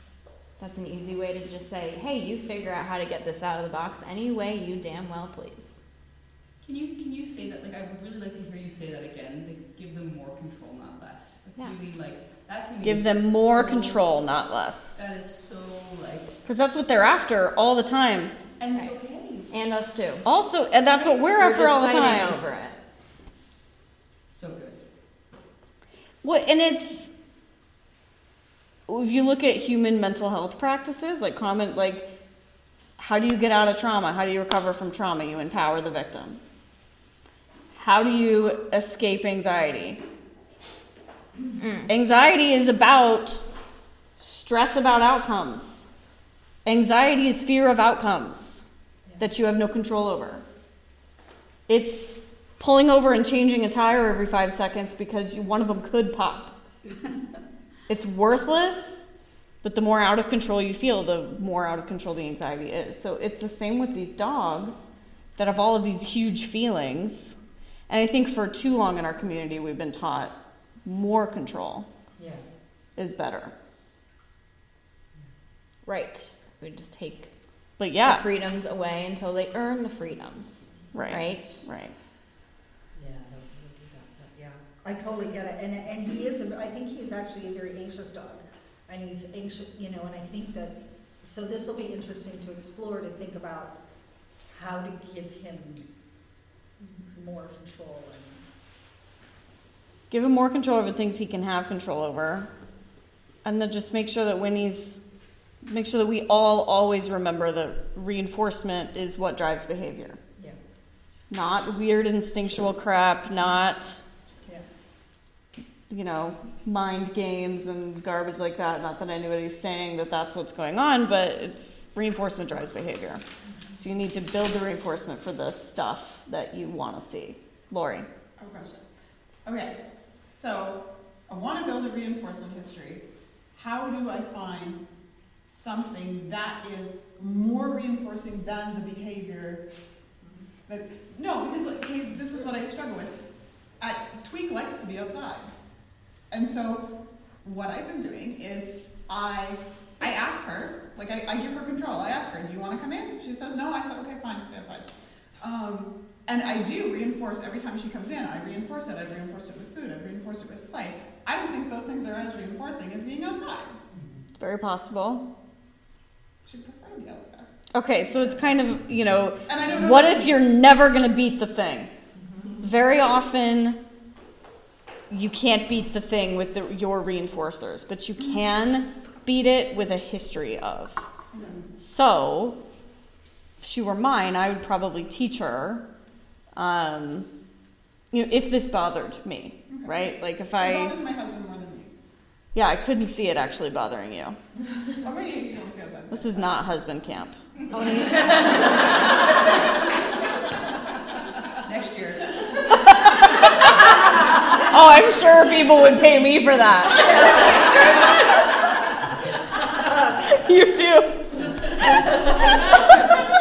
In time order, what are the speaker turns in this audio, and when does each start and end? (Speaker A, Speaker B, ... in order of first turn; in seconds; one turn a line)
Speaker A: 0.6-5.8
Speaker B: 6.6-14.1
Speaker C: 12.8-15.0
Speaker B: 14.9-16.4
Speaker C: 16.4-18.3
Speaker B: 18.6-19.5
Speaker A: 19.5-20.2
Speaker C: 20.2-22.4
Speaker A: 21.2-22.8
Speaker B: 24.3-24.8
Speaker C: 26.2-27.1
Speaker C: 28.9-32.1
Speaker C: 33.0-36.4
Speaker C: 37.8-40.0
Speaker A: 41.6-41.9
Speaker C: 41.9-43.4
Speaker C: 44.2-45.9
Speaker C: 46.6-48.6
Speaker C: 49.2-50.4
Speaker C: 51.7-56.5
Speaker C: 57.9-59.1
Speaker C: 59.6-67.4
Speaker C: 67.9-71.9
Speaker D: 72.2-72.4
Speaker C: 73.0-73.5
Speaker A: 75.8-77.3
Speaker C: 77.8-78.2
Speaker A: 78.0-81.6
Speaker C: 80.9-81.9
Speaker D: 83.0-93.8
Speaker D: 94.5-95.9
Speaker D: 96.8-98.4
Speaker C: 100.1-102.5
Speaker C: 103.4-105.0
Speaker C: 105.6-110.2
Speaker C: 111.3-114.0
Speaker C: 115.9-123.2
Speaker C: 123.8-128.1
Speaker E: 128.4-128.8
Speaker E: 129.4-134.8
Speaker E: 135.4-139.6
Speaker E: 140.7-143.2
Speaker E: 143.8-145.5
Speaker E: 146.3-154.9
Speaker E: 155.4-163.8
Speaker C: 164.4-165.2
Speaker E: 166.4-167.5
Speaker C: 167.7-171.9
Speaker E: 169.4-170.4
Speaker C: 172.6-173.8
Speaker C: 175.1-181.0
Speaker E: 181.3-181.6
Speaker C: 181.8-182.6
Speaker C: 183.6-185.8
Speaker C: 186.5-187.3
Speaker C: 188.1-190.9
Speaker E: 189.7-191.9
Speaker C: 192.5-194.4
Speaker E: 194.9-196.7
Speaker C: 196.1-198.2
Speaker A: 197.7-198.5
Speaker B: 198.1-198.5
Speaker B: 201.6-202.9
Speaker C: 202.9-203.8
Speaker C: 204.6-207.3
Speaker B: 207.0-207.6
Speaker C: 210.2-211.3
Speaker B: 211.8-213.2